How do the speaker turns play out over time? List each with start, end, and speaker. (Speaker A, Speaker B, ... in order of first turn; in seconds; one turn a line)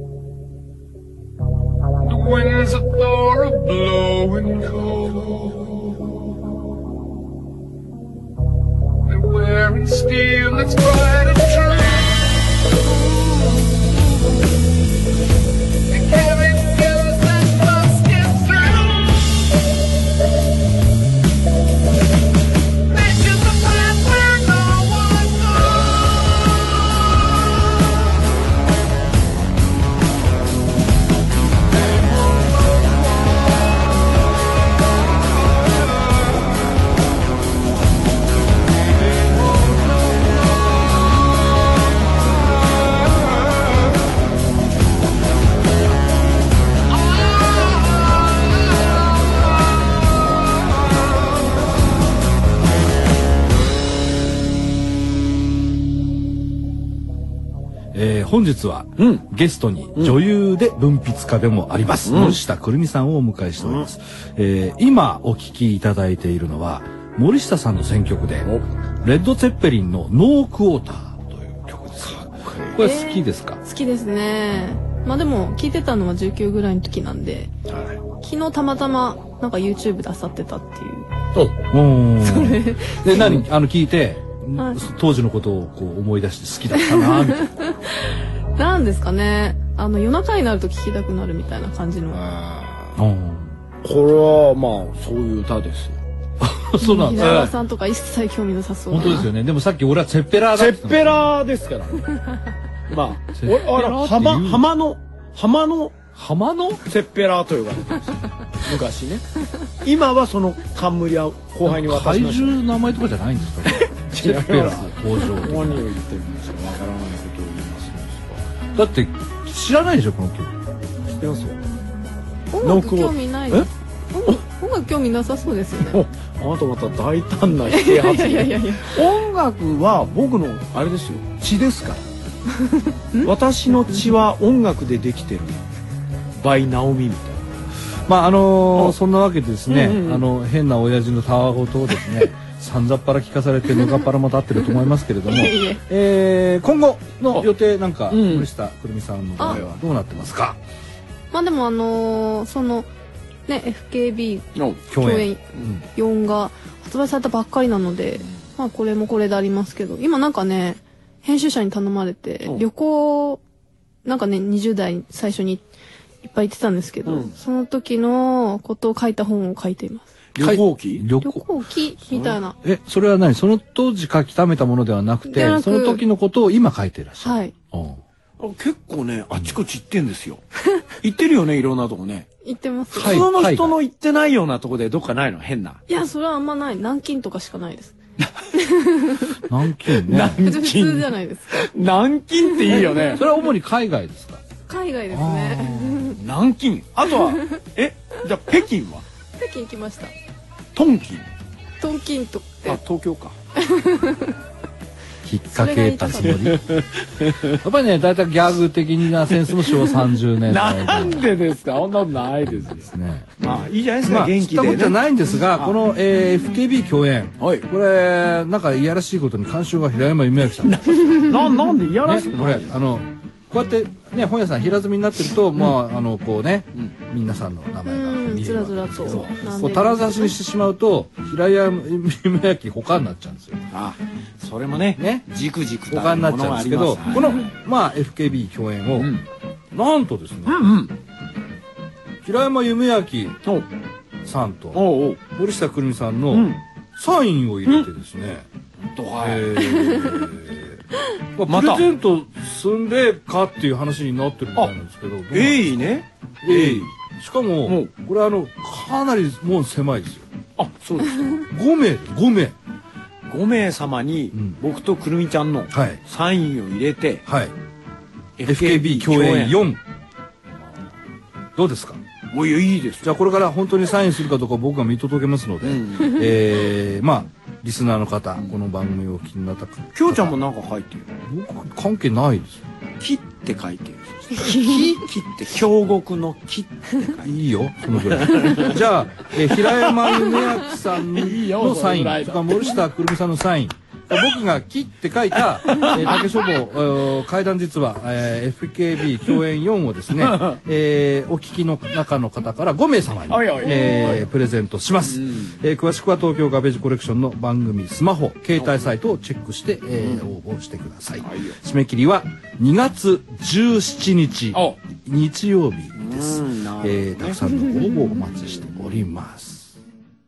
Speaker A: 2.0-6.3
Speaker A: 9.1-12.2
Speaker A: 12.9-14.0
Speaker A: 15.9-19.3
Speaker A: 22.9-26.0
Speaker B: 57.9-68.5
Speaker C: 59.0-59.2
Speaker C: 62.0-62.4
Speaker C: 63.6-63.9
Speaker C: 68.4-68.7
Speaker B: 69.0-73.6
Speaker C: 72.0-72.8
Speaker D: 72.8-77.5
Speaker B: 77.7-78.0
Speaker D: 78.2-81.1
Speaker B: 81.4-87.5
Speaker D: 82.2-83.0
Speaker C: 83.2-83.4
Speaker D: 86.9-92.2
Speaker C: 92.1-93.0
Speaker B: 93.0-93.6
Speaker C: 93.8-96.0
Speaker B: 96.4-97.5
Speaker D: 96.8-99.3
Speaker C: 97.2-97.5
Speaker B: 98.9-101.3
Speaker C: 100.5-102.2
Speaker C: 102.9-106.0
Speaker B: 103.4-104.7
Speaker B: 106.1-106.8
Speaker C: 106.8-109.2
Speaker C: 109.8-112.6
Speaker B: 111.6-115.9
Speaker C: 113.7-118.4
Speaker B: 118.7-120.6
Speaker C: 121.1-121.6
Speaker D: 122.5-126.0
Speaker C: 122.6-123.7
Speaker C: 125.9-132.0
Speaker D: 127.7-129.0
Speaker D: 132.6-133.3
Speaker C: 133.2-135.6
Speaker C: 136.4-137.4
Speaker B: 138.1-150.6
Speaker C: 139.7-140.2
Speaker D: 145.3-145.8
Speaker C: 148.1-148.5
Speaker C: 149.4-149.8
Speaker D: 151.3-152.9
Speaker D: 153.5-155.4
Speaker C: 154.6-154.8
Speaker B: 154.9-155.8
Speaker D: 155.9-163.4
Speaker D: 164.0-165.6
Speaker D: 166.2-170.1
Speaker C: 167.1-167.3
Speaker C: 170.3-171.1
Speaker B: 170.4-171.5
Speaker D: 171.2-172.6
Speaker C: 172.1-172.4
Speaker B: 172.6-178.0
Speaker D: 175.3-176.0
Speaker D: 177.2-177.5
Speaker C: 178.4-180.4
Speaker C: 181.0-182.3
Speaker D: 182.4-183.3
Speaker C: 182.9-185.8
Speaker B: 182.9-183.8
Speaker D: 185.9-187.9
Speaker D: 188.6-189.4
Speaker B: 189.4-190.4
Speaker C: 190.0-193.2
Speaker D: 190.4-191.7
Speaker D: 192.6-193.2
Speaker B: 192.7-194.4
Speaker D: 194.7-196.2
Speaker B: 195.1-196.2
Speaker C: 196.2-199.0
Speaker D: 199.4-200.1
Speaker C: 200.7-201.3
Speaker D: 201.8-202.8
Speaker C: 202.7-203.4
Speaker D: 203.6-204.4
Speaker B: 205.2-206.6
Speaker D: 205.5-206.5
Speaker C: 206.3-207.6
Speaker B: 207.5-211.3
Speaker C: 209.4-209.9
Speaker C: 210.5-215.8
Speaker B: 212.6-213.3
Speaker B: 214.0-221.2
Speaker C: 217.4-217.7
Speaker C: 220.6-222.7
Speaker B: 222.0-233.6
Speaker D: 227.9-230.3
Speaker C: 229.0-229.4
Speaker C: 233.7-237.5
Speaker B: 235.0-235.3
Speaker B: 235.9-239.1
Speaker C: 239.0-239.2
Speaker B: 239.7-240.8
Speaker C: 240.4-240.9
Speaker B: 242.2-243.4
Speaker B: 244.2-248.4
Speaker C: 244.7-245.2
Speaker C: 246.3-246.6
Speaker C: 248.9-250.1
Speaker B: 249.2-250.8
Speaker B: 251.4-260.3
Speaker C: 251.5-251.9
Speaker C: 255.3-256.9
Speaker C: 257.6-257.9
Speaker C: 260.6-261.4
Speaker B: 261.4-262.5
Speaker C: 263.3-267.2
Speaker B: 265.7-266.0
Speaker B: 267.3-267.5
Speaker C: 268.4-269.6
Speaker B: 268.4-269.8
Speaker B: 271.5-272.0
Speaker C: 272.3-273.2
Speaker B: 273.0-280.4
Speaker C: 275.6-276.5
Speaker C: 279.9-281.2
Speaker B: 281.2-282.7
Speaker C: 283.0-288.7
Speaker B: 287.2-319.8
Speaker C: 289.4-292.8
Speaker C: 295.6-296.2
Speaker C: 300.2-300.6
Speaker C: 303.3-304.3
Speaker C: 305.1-305.5
Speaker C: 310.0-310.2
Speaker C: 311.2-311.6
Speaker C: 314.5-314.8
Speaker C: 315.9-317.4